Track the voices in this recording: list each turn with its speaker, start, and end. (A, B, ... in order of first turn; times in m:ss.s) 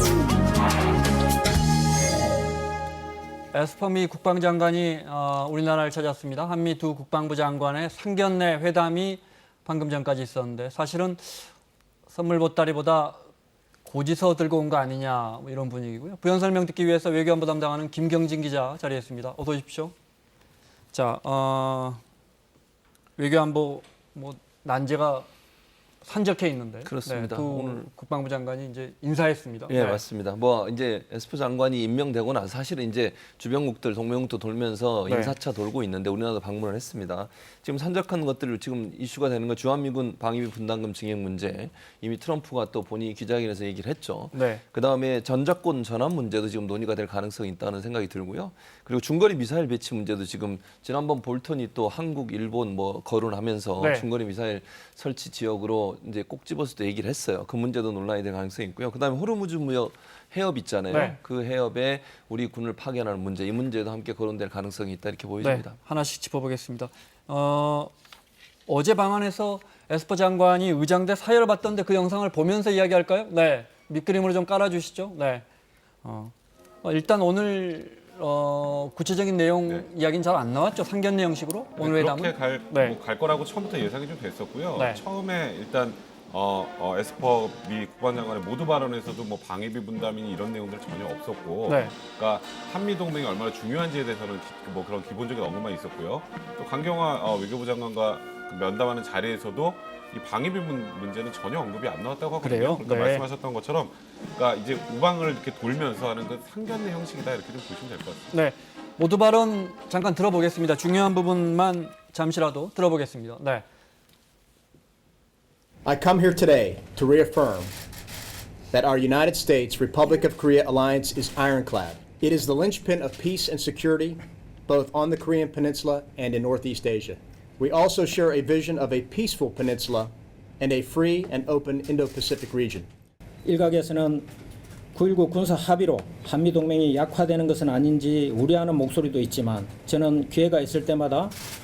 0:03.5-0:11.5 A
0:12.1-0:13.2 A
0:13.8-0:19.9 A
0:20.9-0:22.0 A
0:23.2-0:25.3 A
0:26.0-0:30.0 A
0:26.8-0:27.8 B
0:29.7-1:05.8 B
0:35.1-0:35.3 A
0:44.3-0:44.6 A
0:53.8-0:54.1 A
1:00.9-1:01.2 A
1:05.4-1:07.9 A
1:08.7-1:15.4 A
1:16.0-1:23.0 A
1:21.8-1:48.2 C
1:24.8-1:25.0 A
1:31.6-1:31.9 A
1:42.4-1:43.2 A
1:48.3-1:53.6 A
1:55.8-1:57.7 D
1:58.7-2:12.9 D
2:13.4-2:14.2 E
2:14.9-2:21.3 E